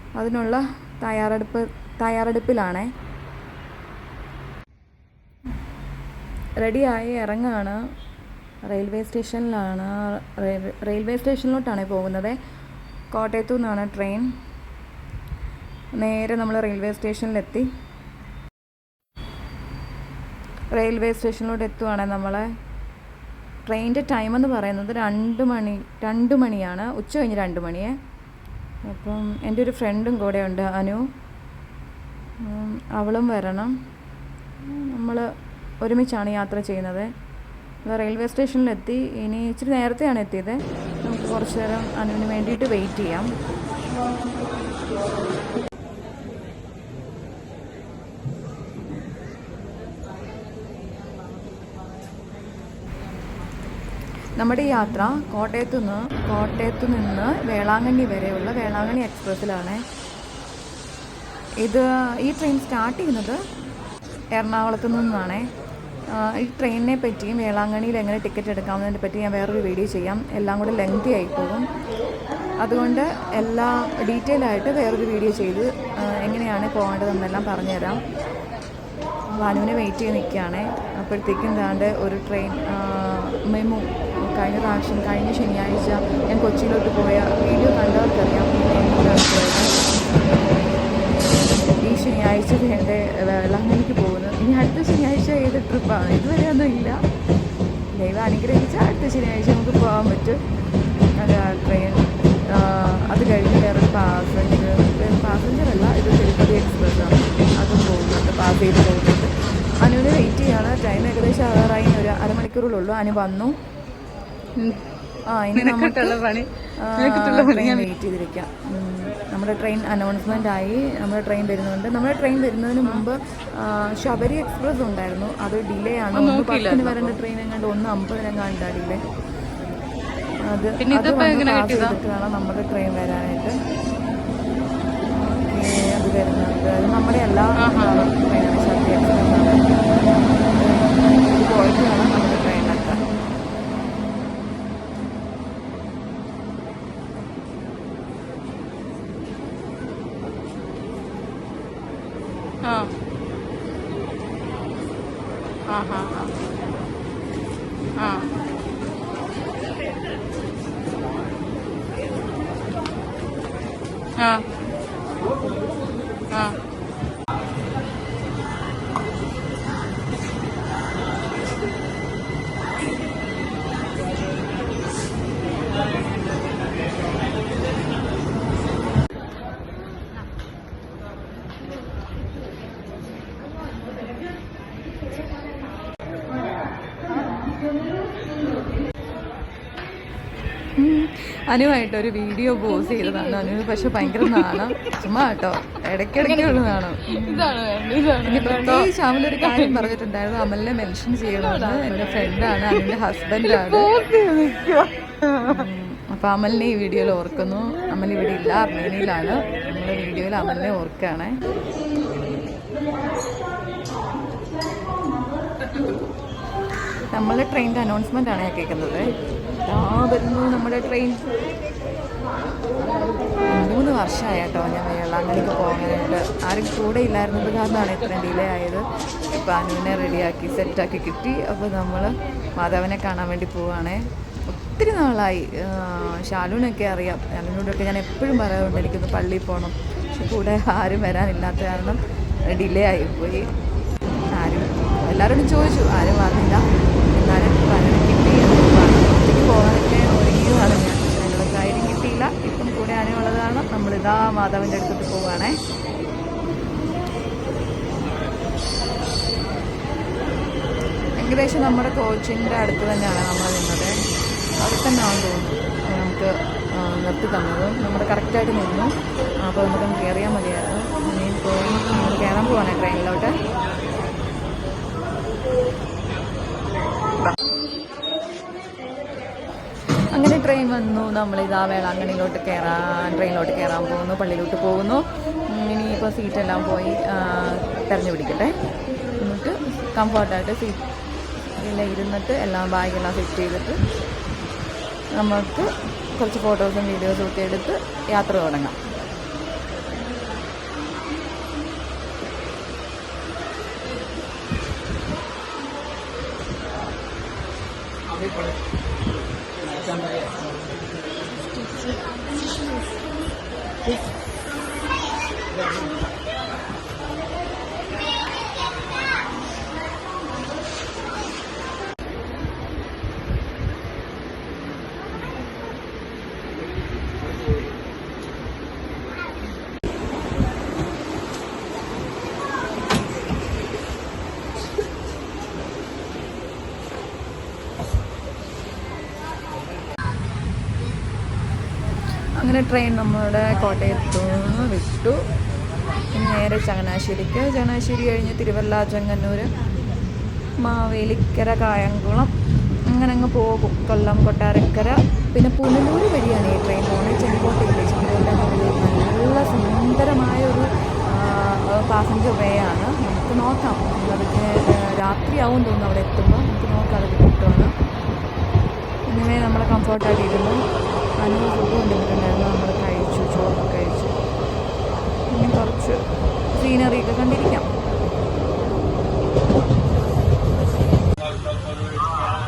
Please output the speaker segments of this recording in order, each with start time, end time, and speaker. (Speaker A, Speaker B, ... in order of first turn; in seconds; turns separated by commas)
Speaker A: 0.2-2.9, Speaker A: 6.6-7.8, Speaker A: 8.7-12.4, Speaker A: 13.1-14.3, Speaker A: 15.9-17.7, Speaker A: 20.7-22.5, Speaker A: 23.7-27.9, Speaker A: 28.9-31.0, Speaker A: 32.5-33.8, Speaker A: 34.6-35.3, Speaker A: 35.8-37.1, Speaker A: 37.9-43.3, Speaker A: 54.4-59.8, Speaker A: 61.6-63.4, Speaker A: 64.3-65.5, Speaker A: 66.2-71.7, Speaker A: 72.6-78.0, Speaker A: 79.3-90.5, Speaker A: 91.7-97.0, Speaker A: 98.0-100.4, Speaker A: 101.2-109.3, Speaker A: 109.8-113.5, Speaker B: 114.5-114.8, Speaker A: 115.3-116.2, Speaker B: 115.5-117.9, Speaker A: 116.8-129.0, Speaker B: 126.1-127.2, Speaker A: 130.4-133.6, Speaker B: 130.8-132.0, Speaker A: 135.2-139.7, Speaker B: 137.6-138.1, Speaker A: 140.5-143.0, Speaker B: 152.6-152.9, Speaker B: 155.7-156.3, Speaker B: 158.0-158.3, Speaker B: 164.2-164.4, Speaker B: 166.3-166.6, Speaker A: 190.8-197.5, Speaker B: 192.7-194.8, Speaker B: 196.2-198.9, Speaker A: 198.2-203.9, Speaker B: 199.4-199.9, Speaker B: 201.4-202.3, Speaker B: 203.4-205.7, Speaker A: 205.4-211.4, Speaker A: 217.1-219.1, Speaker A: 219.7-221.3, Speaker A: 223.4-243.5, Speaker A: 244.3-255.6, Speaker A: 261.2-263.9, Speaker A: 264.6-273.3, Speaker A: 280.1-288.5, Speaker A: 289.2-290.8, Speaker A: 291.6-293.8, Speaker A: 295.2-298.8, Speaker A: 342.4-345.2, Speaker A: 346.1-349.5, Speaker A: 350.6-352.3, Speaker A: 352.9-367.7, Speaker A: 369.1-370.6, Speaker A: 371.2-374.1, Speaker A: 375.3-376.0, Speaker A: 376.5-377.7